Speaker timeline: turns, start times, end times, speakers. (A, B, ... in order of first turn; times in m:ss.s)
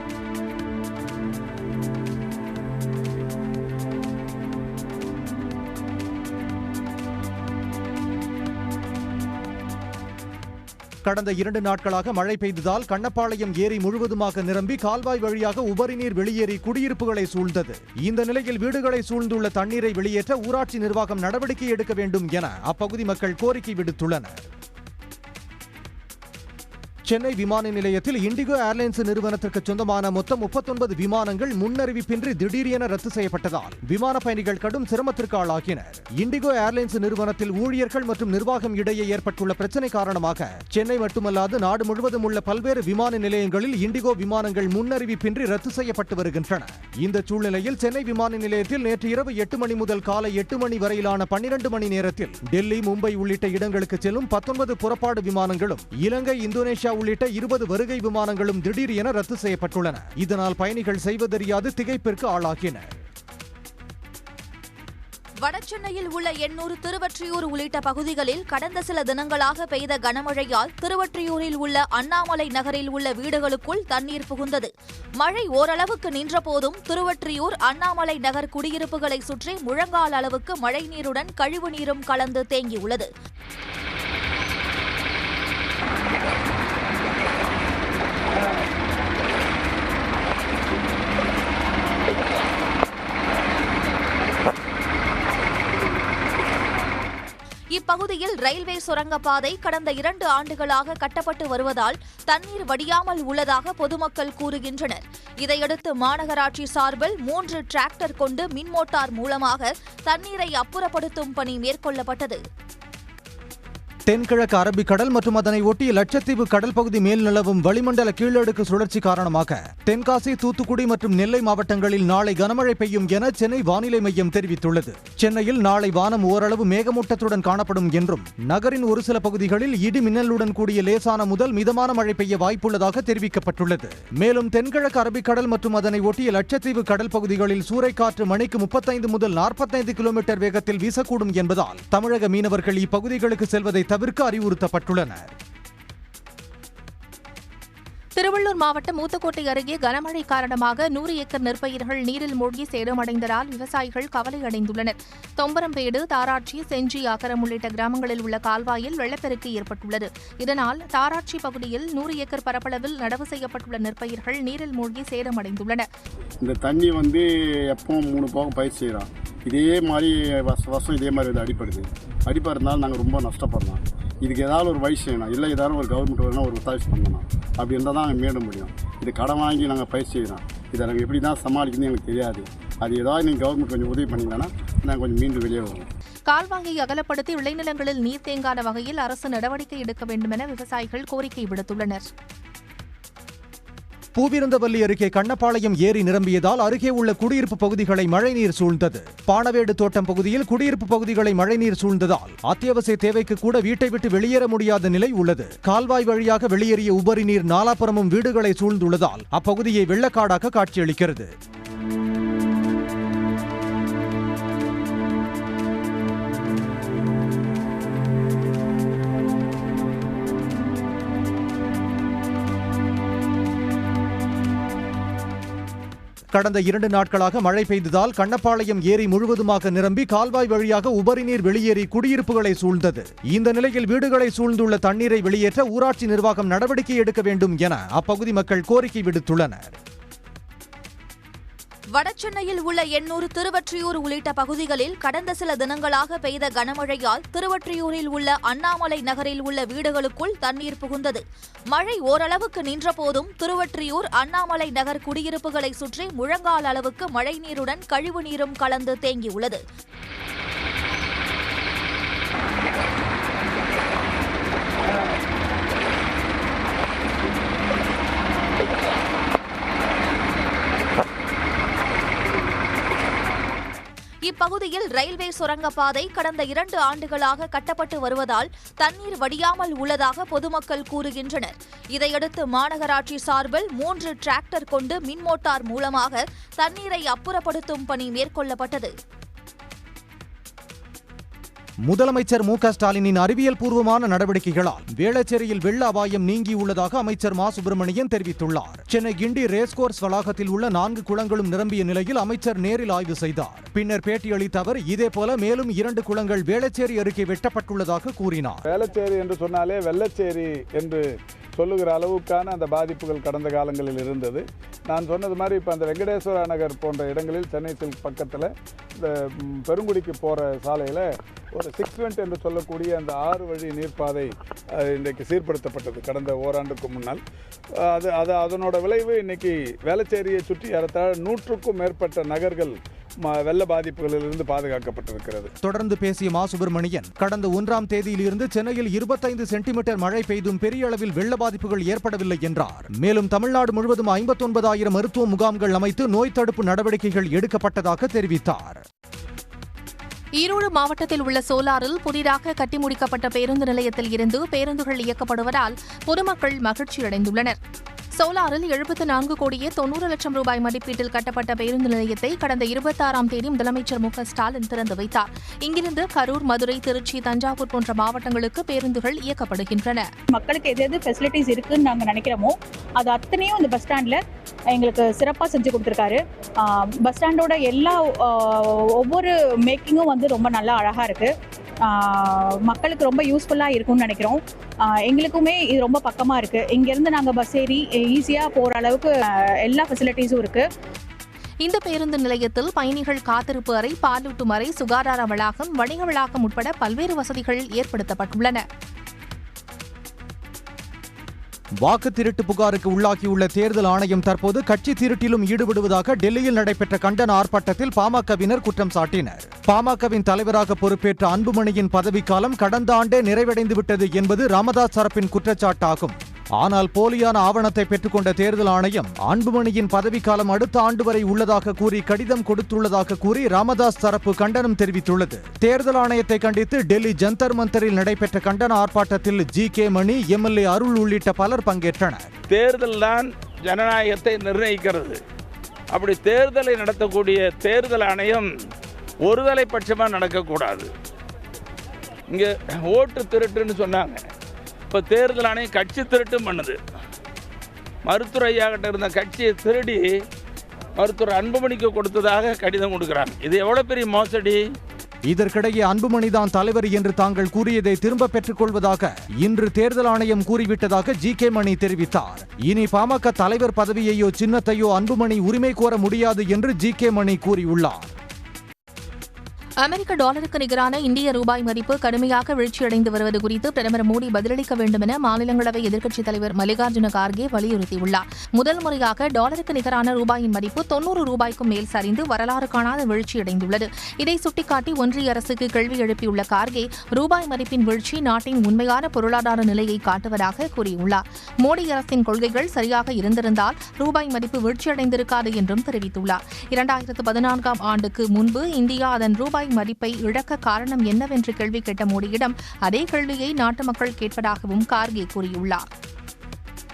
0:11.0-0:24.5 A
0:27.1-1:02.9 A
1:05.4-1:23.1 B
1:37.7-1:52.4 B
1:54.1-2:25.3 A
2:28.2-2:45.8 C
2:46.4-3:05.8 D
3:06.3-3:12.0 C
3:14.2-3:31.3 A
3:46.3-3:59.8 A
4:01.9-4:11.2 B
4:11.7-4:19.6 B
4:34.2-4:48.9 B
4:51.8-5:08.7 A
5:08.7-5:27.2 E
5:27.9-5:35.5 E
5:35.6-5:48.8 A
5:50.4-5:57.6 C
5:58.2-6:10.1 C
6:10.4-6:14.2 F
6:14.8-6:16.2 F
6:17.0-6:18.0 F
6:19.0-6:21.3 F
6:22.7-6:24.4 F
6:25.1-6:29.1 F
6:29.7-6:30.6 F
6:31.6-6:38.6 C
6:41.8-7:12.3 A
7:12.5-7:15.1 G
7:15.9-7:18.4 G
7:19.3-7:20.8 G
7:22.3-7:24.2 G
7:24.9-7:26.7 G
7:28.1-7:30.0 G
7:31.0-7:34.6 G
7:35.3-7:48.1 A
7:49.8-8:25.8 C